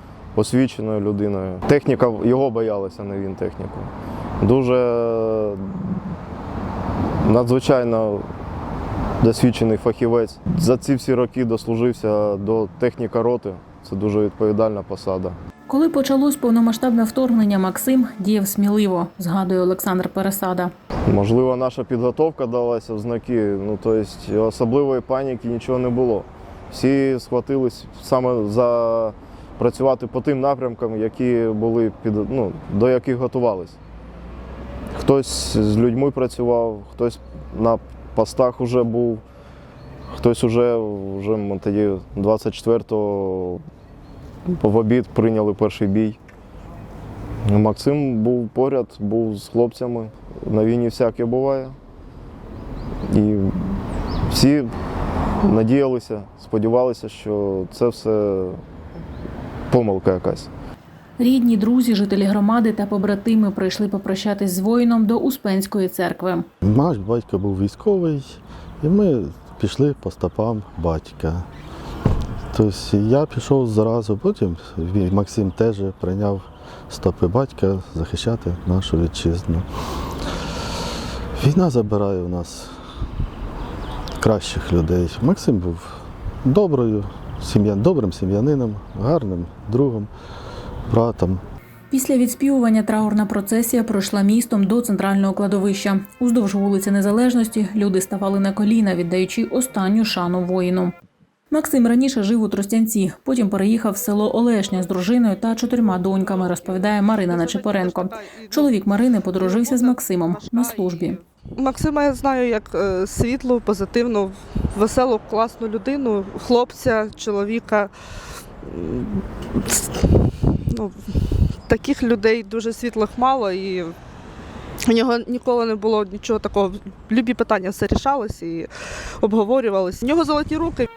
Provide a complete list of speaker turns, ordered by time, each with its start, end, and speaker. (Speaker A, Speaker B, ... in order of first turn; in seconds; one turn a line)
Speaker A: 0.4-3.9
Speaker A: 4.4-6.0
Speaker A: 7.2-8.3
Speaker A: 9.2-15.4
Speaker B: 15.7-20.7
Speaker A: 21.1-33.8
Speaker A: 35.0-39.2
Speaker A: 40.1-43.6
Speaker A: 44.5-46.2
Speaker A: 47.5-51.8
Speaker A: 53.1-53.8
Speaker A: 54.3-54.7
Speaker A: 55.4-58.6
Speaker A: 59.7-60.5
Speaker B: 61.2-66.5
Speaker C: 66.6-71.5
Speaker C: 72.5-79.7
Speaker C: 81.3-82.8
Speaker C: 84.2-90.1
Speaker C: 90.9-91.4
Speaker B: 91.9-100.9
Speaker B: 101.5-111.2
Speaker D: 106.5-108.7
Speaker D: 109.3-117.9
Speaker D: 118.6-124.0
Speaker D: 124.8-130.9